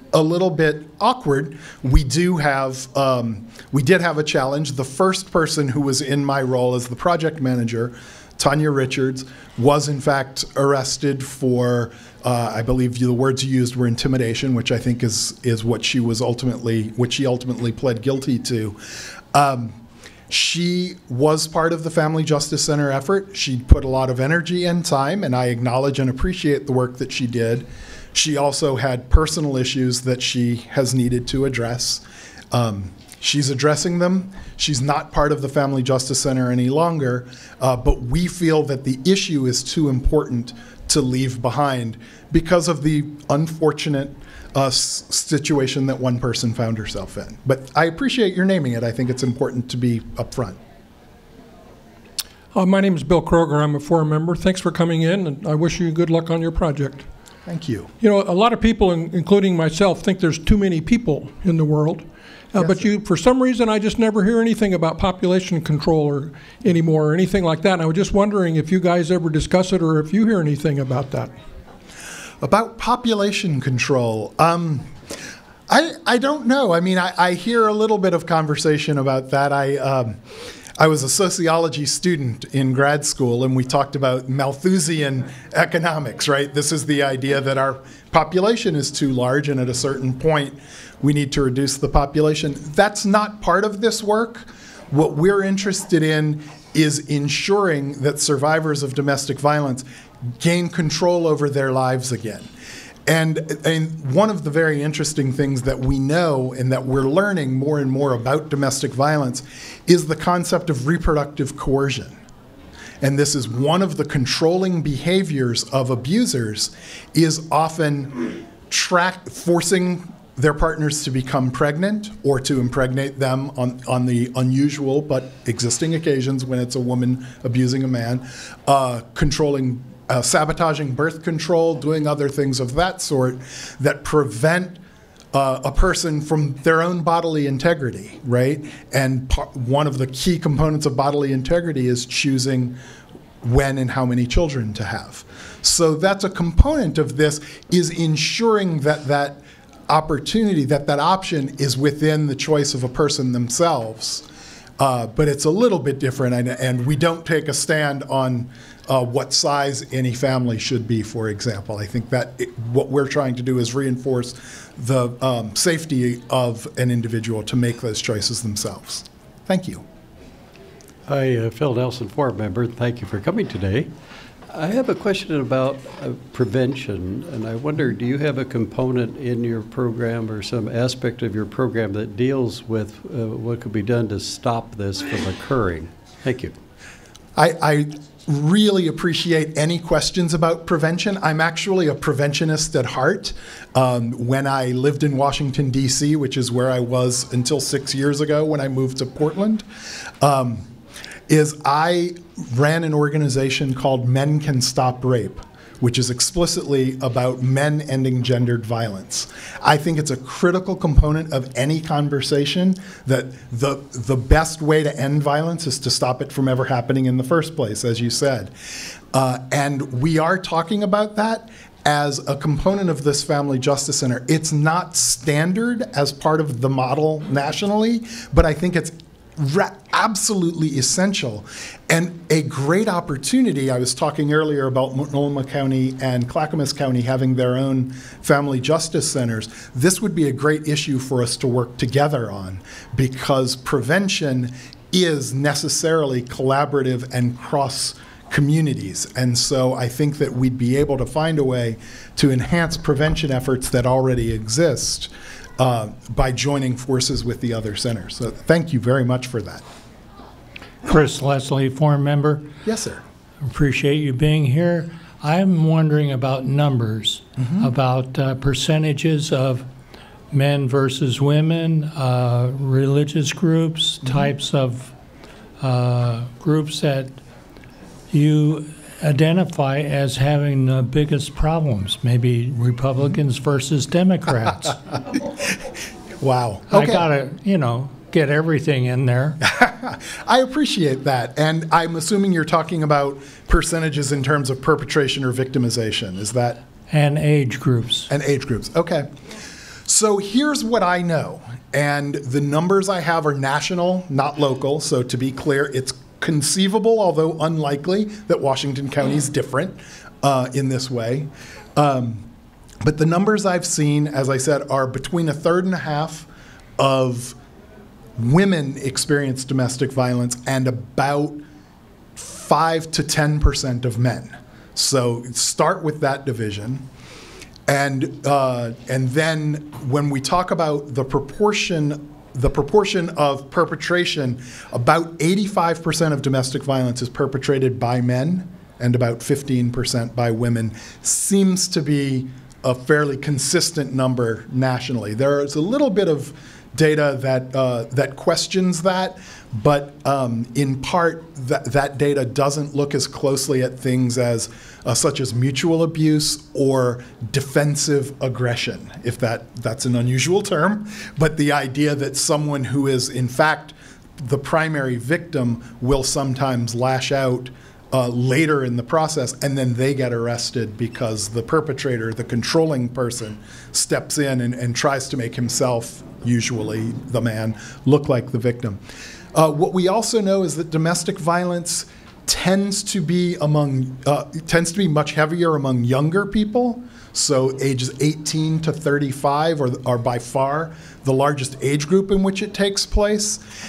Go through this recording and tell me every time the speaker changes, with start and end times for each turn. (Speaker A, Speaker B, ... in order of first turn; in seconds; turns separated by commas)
Speaker A: 0.1-18.8, Speaker A: 19.3-19.8, Speaker A: 20.3-50.6, Speaker B: 52.5-57.1, Speaker A: 57.5-57.9, Speaker B: 58.0-71.3, Speaker A: 62.6-62.9, Speaker A: 72.4-74.9, Speaker A: 75.7-80.2, Speaker A: 80.8-102.5, Speaker A: 103.1-112.2, Speaker A: 113.0-134.8, Speaker A: 135.3-142.8, Speaker A: 143.4-154.2, Speaker A: 154.8-169.8, Speaker C: 171.1-173.9, Speaker C: 174.5-186.5, Speaker A: 187.4-199.7, Speaker A: 200.2-200.7, Speaker A: 201.3-218.5, Speaker A: 219.1-259.6, Speaker D: 260.9-262.5, Speaker A: 262.6-263.0, Speaker D: 263.4-269.7, Speaker A: 267.4-267.7, Speaker D: 270.3-274.9, Speaker D: 275.6-277.2, Speaker D: 278.1-284.8, Speaker A: 286.2-287.1, Speaker D: 286.7-289.4, Speaker A: 289.4-296.6, Speaker D: 296.9-298.1, Speaker A: 298.1-299.1, Speaker A: 299.9-312.3, Speaker A: 312.8-317.4, Speaker A: 318.2-321.4, Speaker A: 322.2-326.9, Speaker A: 327.7-378.8, Speaker A: 379.3-393.4